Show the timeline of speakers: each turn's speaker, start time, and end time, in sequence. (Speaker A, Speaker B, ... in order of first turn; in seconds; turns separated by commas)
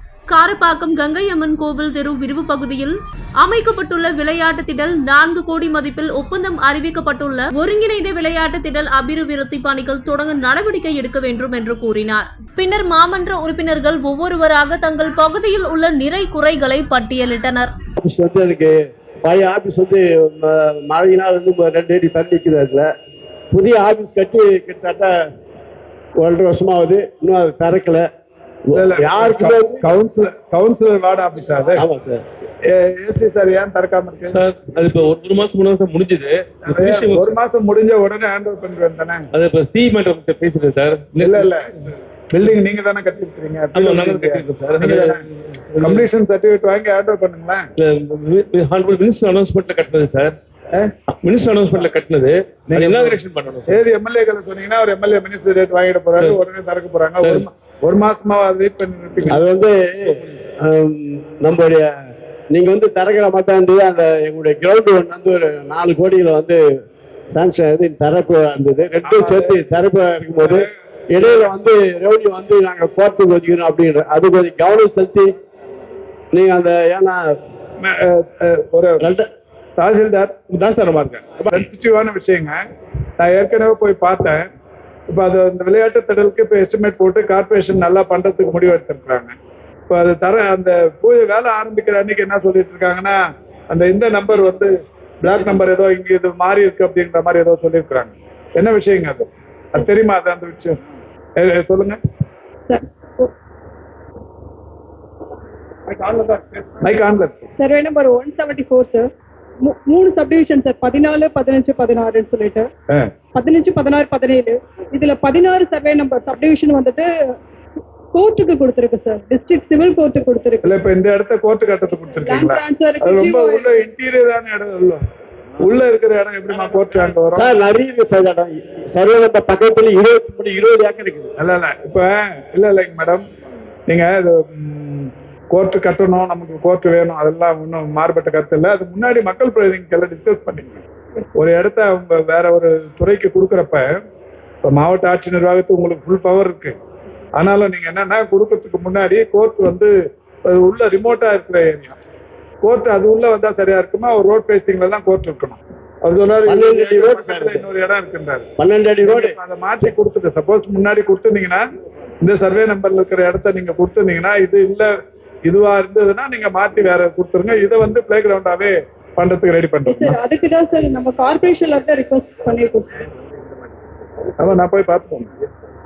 Speaker A: 0.3-17.7, Speaker B: 18.0-22.9, Speaker B: 23.5-25.1, Speaker B: 26.2-28.1, Speaker B: 28.7-29.8, Speaker C: 28.7-31.9, Speaker B: 31.8-32.2, Speaker C: 32.7-34.4, Speaker D: 34.3-37.4, Speaker C: 36.7-39.3, Speaker D: 39.3-41.7, Speaker C: 41.2-41.7, Speaker C: 42.3-45.2, Speaker D: 43.7-46.1, Speaker C: 45.8-47.7, Speaker D: 47.8-50.4, Speaker D: 51.1-53.8, Speaker C: 52.7-59.5, Speaker D: 57.2-57.5, Speaker B: 59.3-61.9, Speaker D: 59.9-60.3, Speaker B: 62.5-66.6, Speaker B: 67.3-75.4, Speaker C: 69.1-69.6, Speaker B: 76.3-77.3, Speaker C: 77.8-79.0, Speaker B: 79.0-79.3, Speaker C: 79.8-80.5, Speaker D: 80.5-81.5, Speaker C: 81.5-82.6, Speaker C: 83.2-84.5, Speaker C: 85.1-89.4, Speaker C: 89.9-93.2, Speaker C: 93.7-94.7, Speaker C: 95.2-100.8, Speaker C: 101.4-102.0, Speaker E: 102.7-103.3, Speaker C: 105.9-107.5, Speaker E: 107.6-109.1, Speaker E: 109.7-112.7, Speaker E: 113.3-117.1, Speaker E: 118.1-120.7, Speaker C: 120.6-125.0, Speaker E: 121.9-123.8, Speaker C: 125.6-127.5, Speaker B: 127.4-131.3, Speaker C: 131.4-133.2, Speaker C: 133.9-140.8, Speaker C: 141.4-143.9, Speaker C: 144.7-146.8, Speaker C: 147.4-149.9, Speaker C: 150.5-152.0, Speaker C: 152.6-158.5, Speaker B: 156.5-157.6, Speaker B: 158.6-159.4, Speaker C: 159.0-161.6, Speaker C: 162.2-164.9, Speaker C: 165.4-170.2, Speaker E: 169.9-173.0, Speaker C: 174.4-175.3